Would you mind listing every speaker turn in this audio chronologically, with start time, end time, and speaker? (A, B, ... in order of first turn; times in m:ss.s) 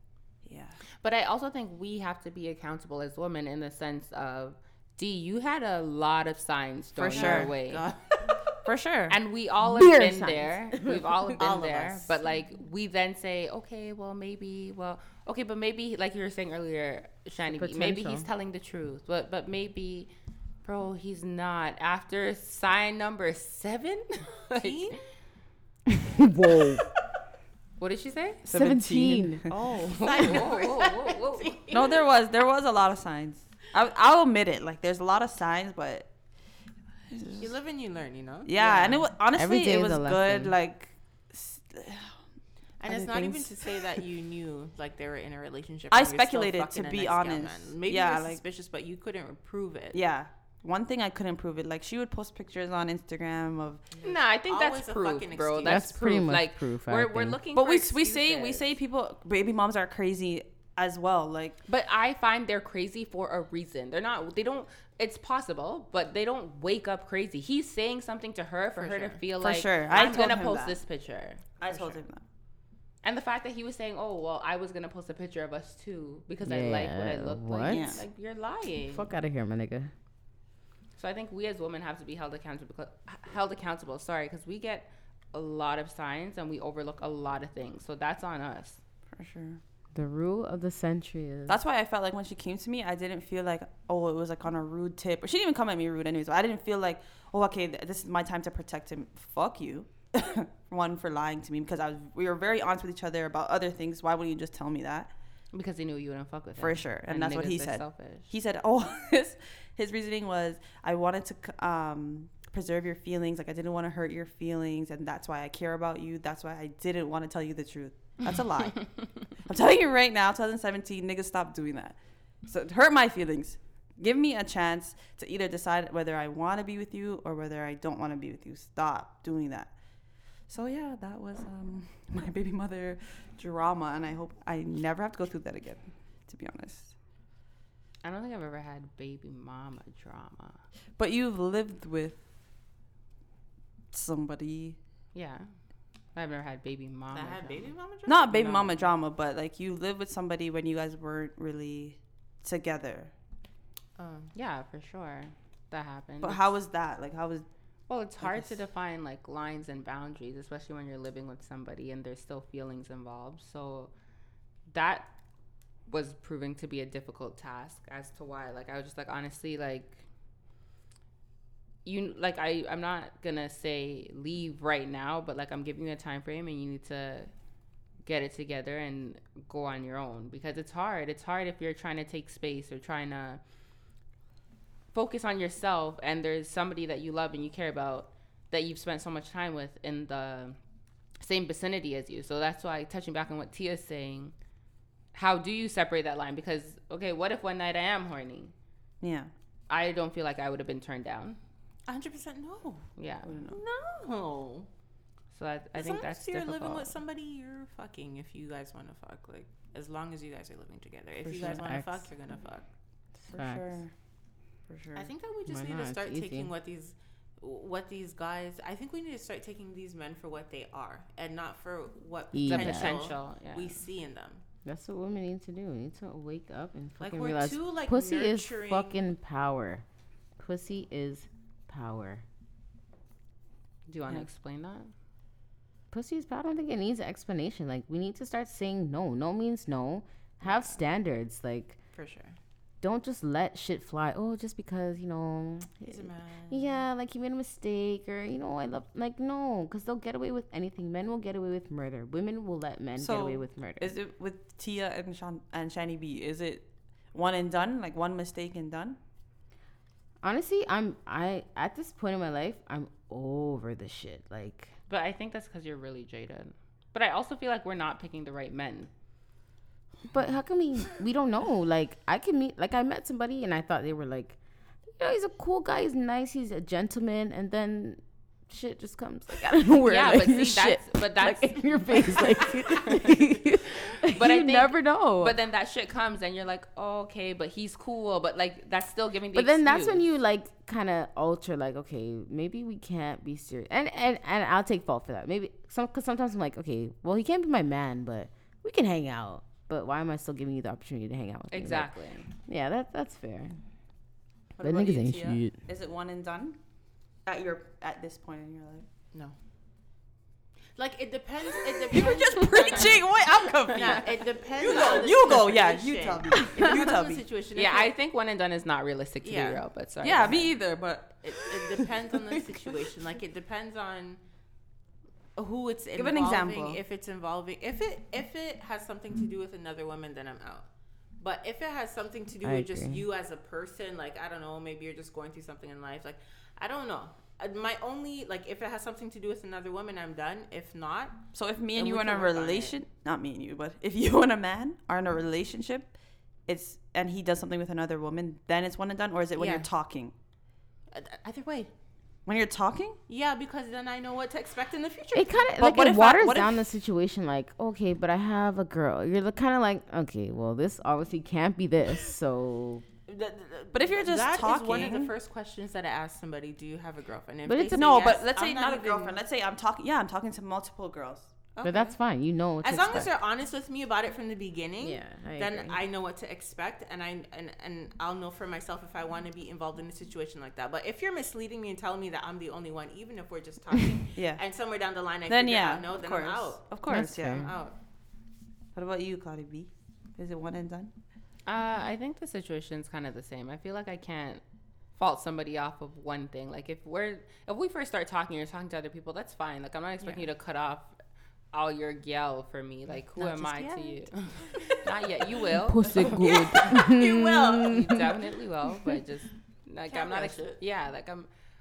0:00.5-0:00.8 A
0:01.0-0:07.9 B
0:07.0-0:07.5 A
0:07.1-0:08.5 C
0:08.6-0:09.2 A
0:09.1-0:20.1 B
0:09.6-0:11.0 D
0:11.2-0:12.2 C
0:17.5-0:18.3 D
0:20.6-0:25.0 B
0:24.5-0:25.0 C
0:25.9-0:26.8 D
0:27.8-0:28.5 B
0:28.4-0:30.3 A
0:28.5-0:29.5 D
0:29.6-0:32.1 C
0:29.9-0:31.6 B
0:31.7-0:36.1 A
0:37.1-0:37.5 A
0:37.4-0:39.1 C
0:38.5-0:42.1 A
0:39.3-0:40.6 D
0:42.8-0:50.0 C
0:42.9-0:43.7 A
0:45.9-0:48.4 A
0:49.9-0:53.9 A
0:54.0-0:56.0 C
0:54.0-0:58.7 B
0:55.6-0:57.4 D
0:57.6-1:01.6 A
1:01.7-1:12.0 B
1:08.8-1:09.1 C
1:09.4-1:10.8 A
1:09.9-1:10.4 C
1:11.6-1:12.2 A
1:13.0-1:19.1 B
1:16.4-1:18.0 D
1:17.7-1:18.0 A
1:18.9-1:19.9 D
1:21.0-1:28.8 B
1:29.1-1:29.6 A
1:29.9-1:31.6 D
1:31.5-1:45.1 A
1:45.5-1:48.3 B
1:46.6-2:09.7 A
2:10.5-2:16.9 A
2:18.0-2:20.6 B
2:21.0-2:22.2 A
2:23.9-2:24.8 A
2:25.1-2:25.5 B
2:26.1-2:27.7 B
2:27.1-2:28.8 C
2:28.1-2:33.1 A
2:34.0-2:34.3 C
2:34.3-2:36.5 B
2:36.2-2:37.5 A
2:37.9-2:43.9 B
2:38.2-2:38.6 A
2:44.7-2:45.1 B
2:45.9-2:50.0 B
2:51.8-2:57.3 B
2:58.1-3:03.4 B
3:04.9-3:10.6 B
3:11.2-3:14.3 B
3:15.1-3:18.5 B
3:19.0-3:19.3 A
3:19.7-3:21.4 B
3:21.9-3:22.9 C
3:23.0-3:23.4 B
3:23.2-3:23.6 A
3:23.5-3:24.7 C
3:25.3-3:26.9 B
3:25.8-3:32.6 C
3:31.2-3:31.6 A
3:31.4-3:32.1 D
3:33.3-3:33.8 D
3:33.3-3:33.9 A
3:34.7-3:35.1 A
3:35.0-3:44.4 C
3:35.5-3:36.5 D
3:42.3-3:43.0 D
3:42.5-3:43.8 B
3:44.6-3:49.8 D
3:47.0-3:49.1 C
3:50.4-3:52.2 D
3:53.9-3:54.9 B
3:55.9-4:01.8 D
4:01.9-4:02.4 C
4:02.8-4:13.9 D
4:05.8-4:06.8 C
4:13.0-4:19.0 A
4:20.2-4:24.7 D
4:24.9-4:28.9 B
4:30.1-4:34.4 D
4:35.0-4:45.4 D
4:39.8-4:43.1 B
4:44.0-4:50.1 B
4:49.3-5:01.9 D
5:01.5-5:02.3 B
5:02.4-5:03.6 D
5:04.6-5:06.6 A
5:04.6-5:05.6 D
5:07.3-5:08.9 A
5:10.8-5:13.1 C
5:11.8-5:17.2 A
5:13.7-5:17.9 C
5:16.3-5:16.7 D
5:17.6-5:20.5 B
5:19.2-5:19.6 C
5:20.0-5:22.5 A
5:21.2-5:24.2 C
5:25.4-5:30.7 C
5:26.0-5:26.8 A
5:31.2-5:41.2 C
5:32.4-5:33.0 D
5:41.3-5:45.9 A
5:41.8-5:42.8 C
5:46.5-5:50.1 A
5:49.4-5:49.7 C
5:50.9-5:51.7 C
5:52.3-5:53.0 A
5:53.1-5:55.5 C
5:55.1-6:02.9 D
5:55.6-5:56.6 A
6:03.1-6:09.2 C
6:03.7-6:05.1 A
6:07.5-6:07.8 D
6:07.7-6:11.3 A
6:11.6-6:12.0 C
6:11.6-6:13.1 D
6:12.6-6:27.8 C
6:14.8-6:15.8 D
6:24.1-6:24.4 A
6:25.3-6:27.5 A
6:26.9-6:27.5 D
6:28.8-6:30.9 A
6:31.5-6:34.4 B
6:35.0-6:41.0 B
6:41.5-6:46.2 B
6:43.2-6:45.3 C
6:45.6-6:48.0 D
6:45.9-6:48.1 C
6:47.7-6:51.3 B
6:49.9-6:50.6 C